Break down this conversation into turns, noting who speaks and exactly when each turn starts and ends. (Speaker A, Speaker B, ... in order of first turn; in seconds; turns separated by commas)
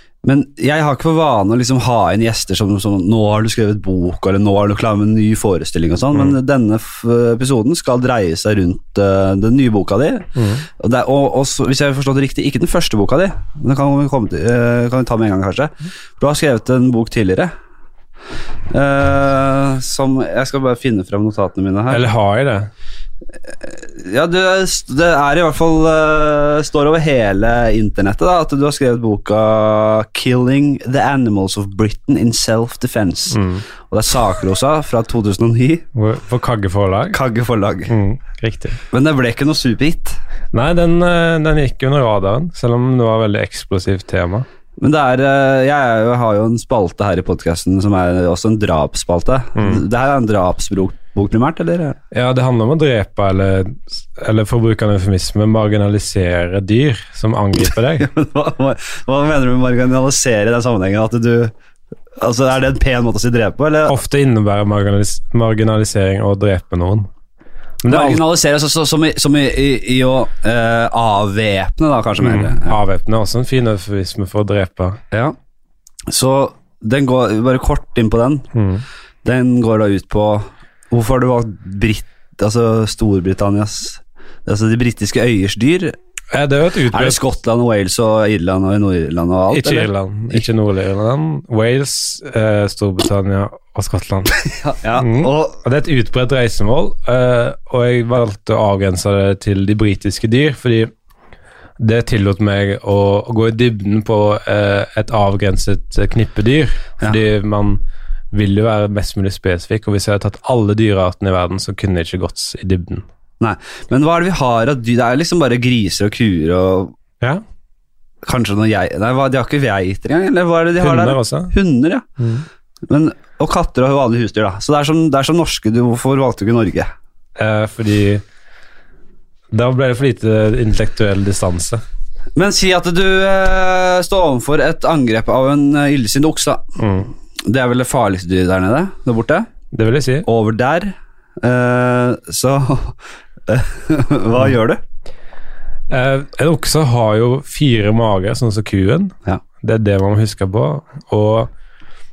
Speaker A: 0.2-10.3, Speaker B: 10.3-10.6, Speaker A: 10.8-17.5, Speaker A: 18.7-22.0, Speaker B: 21.9-22.7, Speaker A: 23.6-35.9, Speaker B: 33.3-33.6, Speaker B: 35.9-37.2, Speaker A: 37.1-37.9, Speaker B: 37.9-38.8, Speaker A: 38.9-40.2, Speaker B: 40.5-44.5, Speaker A: 44.8-52.0, Speaker B: 49.5-49.8, Speaker B: 52.1-58.1, Speaker A: 57.9-61.5, Speaker A: 62.2-64.0, Speaker B: 63.9-67.1, Speaker B: 67.8-68.2, Speaker A: 67.8-72.8, Speaker B: 72.2-75.0, Speaker A: 76.1-78.5, Speaker B: 78.5-78.8, Speaker A: 79.2-85.9, Speaker B: 86.3-87.2, Speaker A: 86.9-90.5, Speaker B: 89.5-94.3, Speaker A: 94.5-95.6, Speaker B: 95.0-100.9, Speaker B: 101.8-107.8, Speaker B: 108.3-113.0, Speaker A: 113.4-116.9, Speaker A: 118.2-122.0, Speaker B: 120.8-121.5, Speaker B: 122.2-122.4, Speaker A: 122.9-126.9, Speaker B: 127.4-128.2, Speaker B: 129.5-131.8, Speaker A: 132.3-136.8, Speaker B: 136.8-137.1, Speaker A: 137.4-139.5, Speaker B: 139.7-140.3, Speaker A: 140.2-143.0, Speaker A: 143.5-144.8, Speaker B: 145.9-151.5